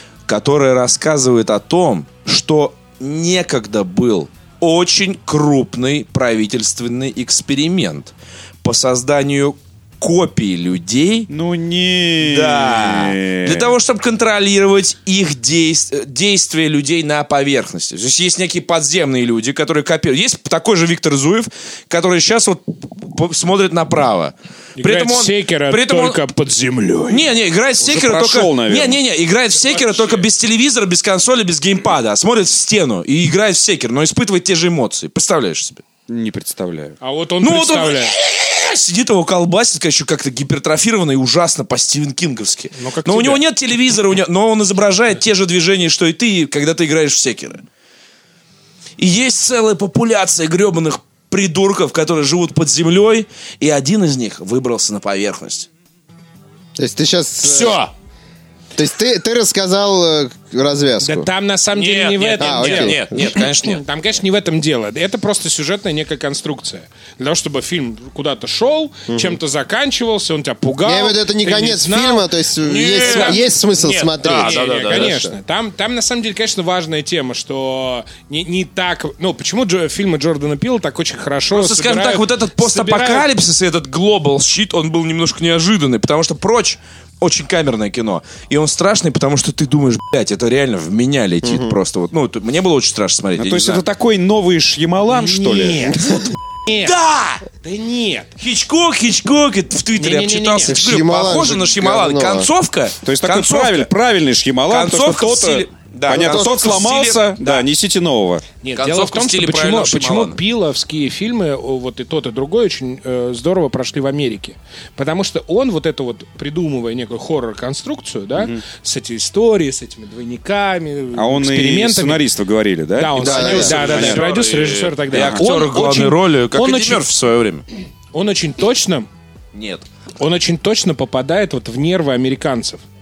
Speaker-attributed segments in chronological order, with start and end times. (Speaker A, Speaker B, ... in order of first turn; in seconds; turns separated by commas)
Speaker A: 0.3-8.1, Speaker A: 8.6-11.3, Speaker B: 11.3-13.7, Speaker A: 12.2-26.2, Speaker C: 24.8-27.3, Speaker A: 27.1-35.8, Speaker B: 27.8-29.0, Speaker C: 29.5-30.2, Speaker B: 36.1-37.0, Speaker C: 37.0-38.1, Speaker A: 37.4-47.6, Speaker C: 42.8-43.4, Speaker A: 49.0-55.7, Speaker D: 56.8-57.8, Speaker A: 57.4-57.9, Speaker D: 58.7-61.3, Speaker C: 61.0-73.5, Speaker A: 61.7-63.8, Speaker D: 62.4-63.4, Speaker D: 69.1-69.4, Speaker D: 70.8-75.3, Speaker A: 72.6-75.2, Speaker C: 74.2-83.2, Speaker A: 81.5-93.8, Speaker D: 91.4-91.7, Speaker B: 93.4-95.9, Speaker C: 95.1-97.0, Speaker A: 96.8-97.4, Speaker C: 97.5-98.3, Speaker A: 98.4-103.9, Speaker C: 99.9-100.7, Speaker D: 100.7-102.5, Speaker B: 103.0-108.4, Speaker A: 104.7-107.6, Speaker D: 106.1-106.5, Speaker C: 108.6-122.2, Speaker A: 108.8-110.4, Speaker B: 121.1-124.2, Speaker C: 122.9-127.1, Speaker D: 123.1-124.2, Speaker A: 123.2-127.6, Speaker B: 125.1-125.4, Speaker C: 128.1-129.1, Speaker A: 129.5-129.8, Speaker C: 130.2-132.8